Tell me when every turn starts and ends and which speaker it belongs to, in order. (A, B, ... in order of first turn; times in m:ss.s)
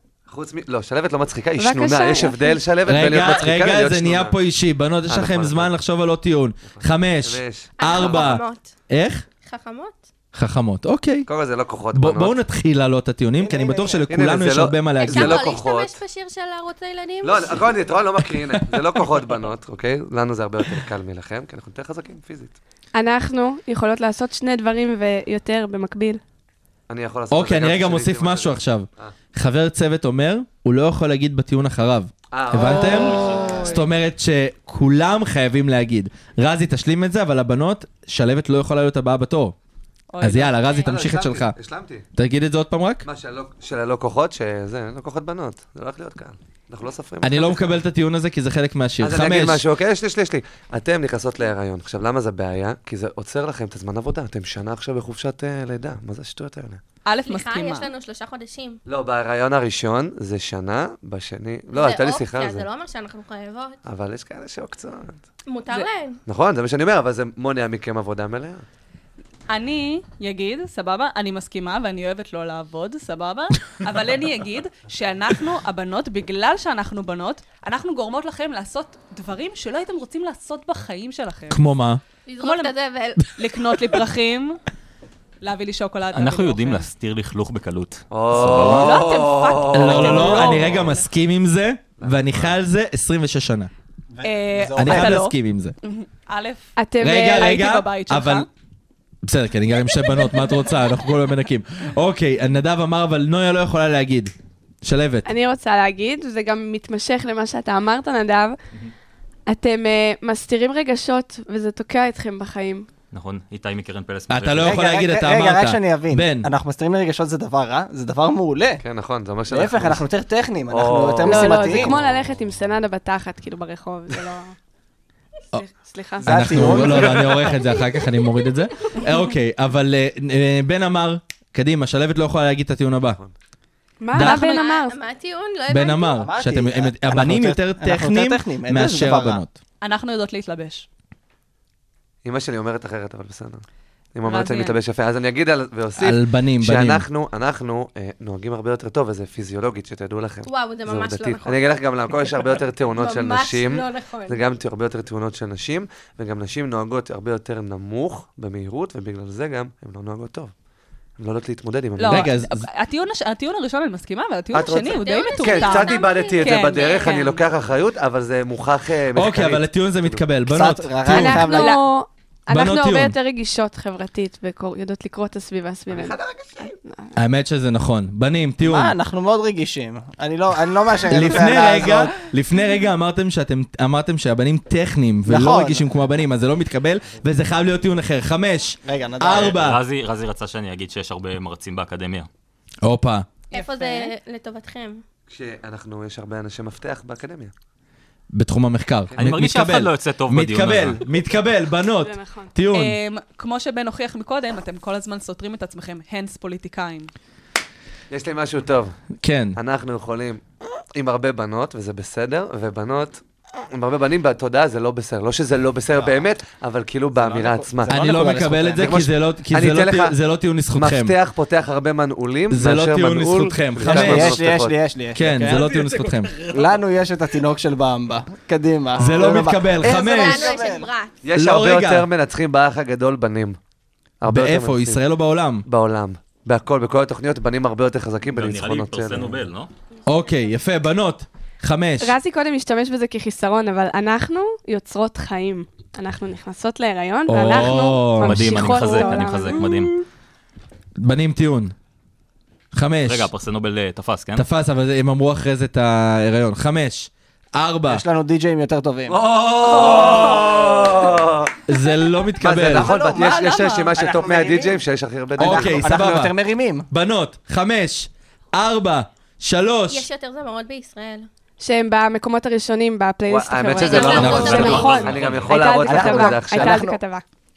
0:00.3-0:04.4 A
0:01.6-0:02.6 B
0:02.8-0:09.2 C
0:05.1-0:05.7 A
0:06.6-0:08.3 A
0:07.8-0:08.7 D
0:09.4-0:10.1 D
0:10.3-0:11.3 C
0:11.2-0:12.4 A
0:11.9-0:15.6 C
0:13.4-0:14.1 E
0:14.1-0:16.0 A
0:15.0-0:17.7 D
0:17.2-0:22.6 A
0:22.9-0:26.2 B
0:26.9-0:29.1 A
0:27.3-0:39.5 C
0:32.3-0:33.6 A
0:32.6-0:33.8 F
0:40.1-0:40.7 F
0:40.2-0:41.6 C
0:40.6-0:41.0 D
0:40.8-0:42.0 A
0:42.2-0:43.0 C
0:43.0-0:47.7 A
0:47.2-0:49.6 C
0:49.0-0:56.8 A
0:57.0-0:57.9 F
0:57.2-0:58.8 D
0:58.8-1:02.7 A
1:01.7-1:03.8 D
1:03.8-1:05.2 A
1:05.5-1:06.2 D
1:06.3-1:08.6 A
1:09.5-1:21.6 F
1:21.5-1:22.0 C
1:22.2-1:23.2 D
1:22.4-1:22.7 F
1:23.3-1:24.6 F
1:25.4-1:26.9 F
1:26.1-1:29.0 G
1:28.1-1:30.9 A
1:28.5-1:31.0 F
1:29.7-1:33.7 C
1:32.0-1:32.5 A
1:34.1-1:35.2 E
1:34.2-1:38.5 F
1:34.8-1:35.7 C
1:36.8-1:37.6 B
1:37.0-1:38.5 C
1:39.2-1:45.3 C
1:45.2-1:48.6 B
1:49.5-1:52.9 B
1:53.1-1:54.8 G
1:54.3-1:56.5 C
1:54.6-1:58.8 E
1:58.8-2:00.0 A
1:59.5-2:02.0 E
2:00.7-2:02.2 A
2:01.2-2:04.5 B
2:05.5-2:07.0 B
2:06.2-2:07.3 E
2:06.2-2:13.2 C
2:14.0-2:15.0 B
2:14.1-2:14.4 C
2:14.1-2:14.7 F
2:14.2-2:16.2 D
2:15.7-2:19.5 C
2:16.2-2:19.4 E
2:19.8-2:20.9 F
2:22.2-2:23.6 A
2:24.1-2:40.5 A
2:24.2-2:24.8 F
2:26.0-2:27.0 C
2:30.4-2:31.8 D
2:32.9-2:34.6 D
2:41.2-2:42.3 A
2:42.0-2:47.4 F
2:42.0-2:42.7 C
2:44.5-2:50.2 A
2:44.8-2:47.4 D
2:49.1-2:51.5 C
2:50.5-2:51.7 E
2:51.1-2:57.1 B
2:51.5-2:51.8 F
2:52.5-2:53.2 C
2:55.9-2:56.7 A
2:57.2-2:59.0 C
2:58.6-3:02.1 E
3:01.1-3:09.8 C
3:05.3-3:05.9 E
3:08.8-3:09.6 E
3:09.3-3:12.3 G
3:12.8-3:13.3 C
3:13.5-3:14.1 F
3:13.5-3:15.0 D
3:15.3-3:17.5 A
3:18.3-3:23.0 C
3:19.2-3:21.0 G
3:22.0-3:22.5 B
3:22.7-3:27.1 F
3:28.1-3:28.9 A
3:29.2-3:29.6 C
3:29.6-3:30.4 A
3:30.9-3:38.1 A
3:35.9-3:36.2 E
3:37.1-3:39.0 E
3:37.9-3:41.1 C
3:38.8-3:40.1 A
3:40.7-3:44.8 A
3:42.5-3:44.4 C
3:43.8-3:45.6 E
3:45.1-3:46.3 C
3:45.3-3:46.8 G
3:46.5-3:50.9 E
3:49.0-3:50.5 C
3:49.8-3:51.2 D
3:51.2-3:53.6 A
3:51.3-3:52.1 C
3:54.2-3:55.0 A
3:54.3-3:55.6 C
3:55.6-3:59.4 A
3:58.3-3:59.7 G
4:00.0-4:02.2 C
4:02.0-4:10.0 B
4:07.3-4:08.8 C
4:08.2-4:09.9 G
4:11.0-4:11.7 C
4:12.7-4:13.3 C
4:13.1-4:14.4 G
4:14.3-4:18.0 C
4:17.9-4:19.2 E
4:19.1-4:21.6 A
4:19.8-4:20.3 E
4:21.7-4:23.0 C
4:22.4-4:25.9 A
4:22.6-4:24.8 E
4:23.0-4:23.9 F
4:25.4-4:26.8 E
4:25.4-4:26.3 C
4:26.9-4:30.1 C
4:29.9-4:31.3 D
4:31.6-4:37.2 B
4:33.3-4:36.8 A
4:33.7-4:35.0 D
4:34.1-4:34.8 C
4:34.4-4:35.7 G
4:35.8-4:37.0 E